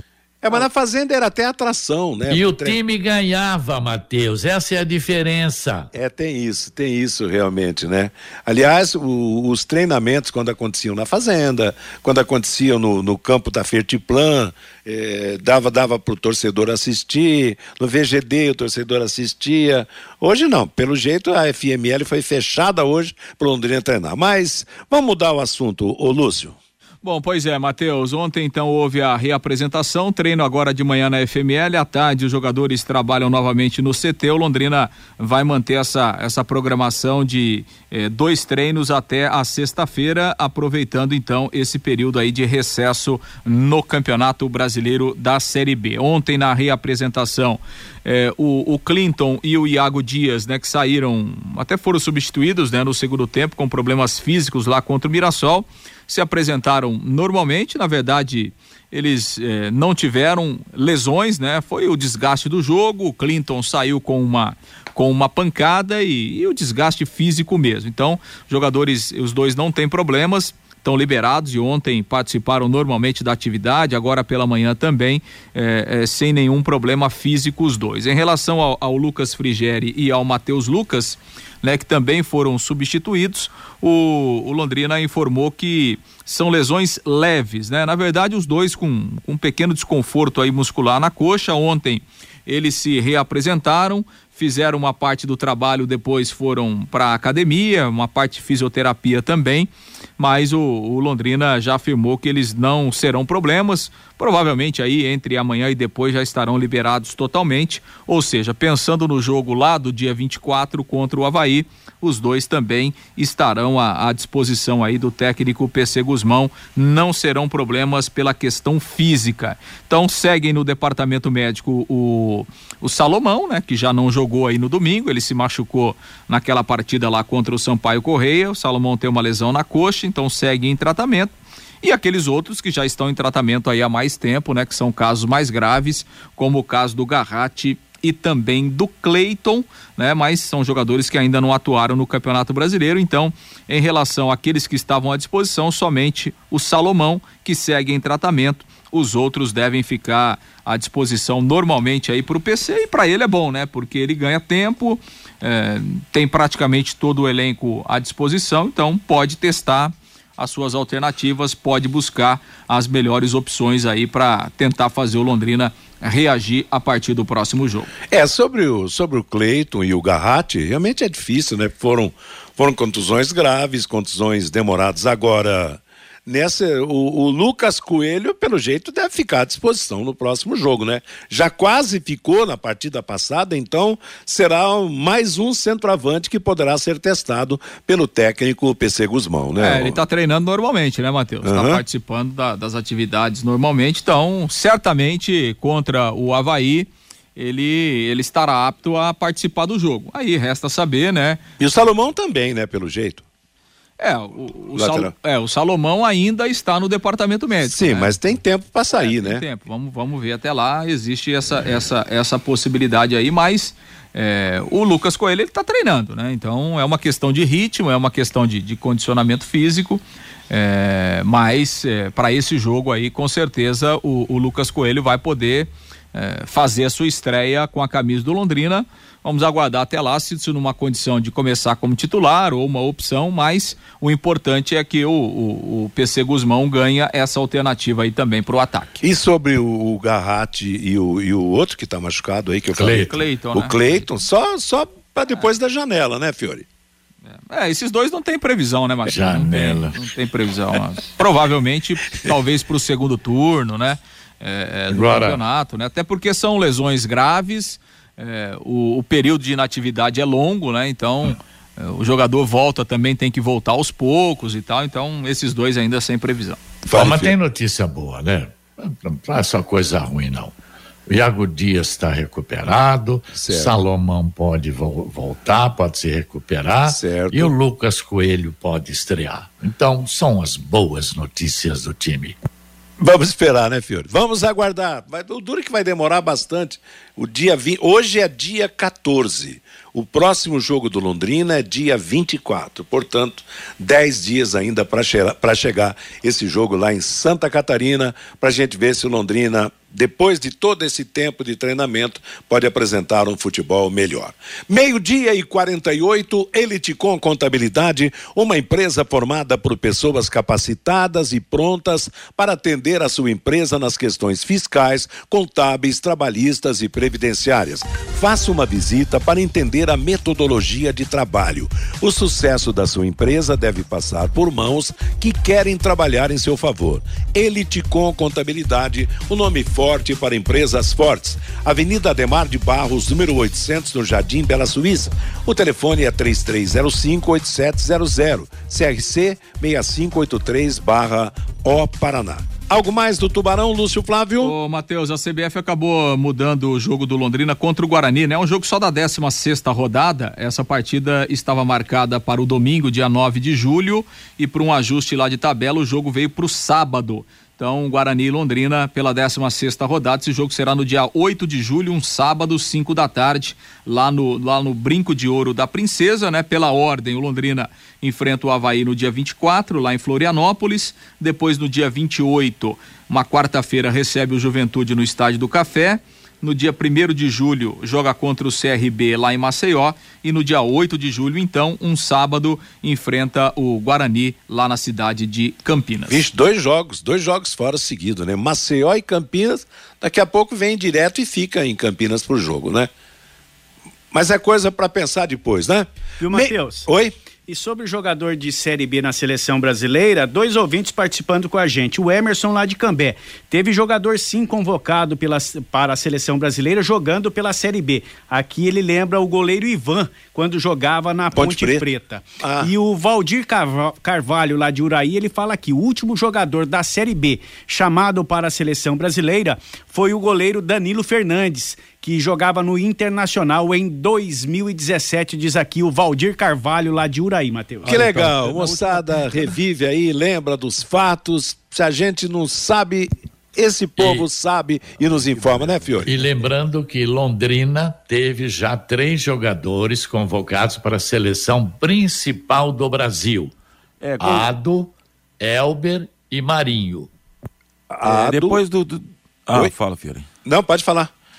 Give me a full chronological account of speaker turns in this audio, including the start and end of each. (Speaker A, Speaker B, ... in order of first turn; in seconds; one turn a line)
Speaker A: 0.4-2.8
Speaker B: 2.3-5.9
Speaker A: 5.9-26.6
Speaker C: 27.0-167.9
Speaker A: 168.1-190.0
Speaker C: 189.6-201.4
Speaker A: 191.4-191.8
Speaker A: 201.6-203.2
Speaker C: 204.0-208.2
Speaker A: 204.7-205.1
Speaker A: 207.6-209.4
Speaker C: 208.9-239.0
Speaker A: 239.0-246.7
Speaker B: 242.8-243.1
Speaker C: 243.1-244.1
Speaker C: 247.3-266.6
Speaker B: 249.1-249.9
Speaker B: 254.9-255.4
Speaker A: 266.9-267.3
Speaker B: 266.9-270.5
Speaker B: 271.1-282.4
Speaker A: 273.3-273.8
Speaker A: 276.9-277.5
Speaker A: 283.0-344.5
Speaker C: 344.4-386.2
Speaker A: 386.1-392.9
Speaker A: 394.1-397.1
Speaker D: 396.2-396.9
Speaker D: 397.5-429.2
Speaker A: 411.3-411.9
Speaker A: 412.4-412.7
Speaker A: 427.8-436.2
Speaker B: 436.0-443.5
Speaker E: 444.0-444.5
Speaker B: 444.2-447.1
Speaker A: 447.9-448.6
Speaker E: 448.0-450.3
Speaker A: 450.4-451.1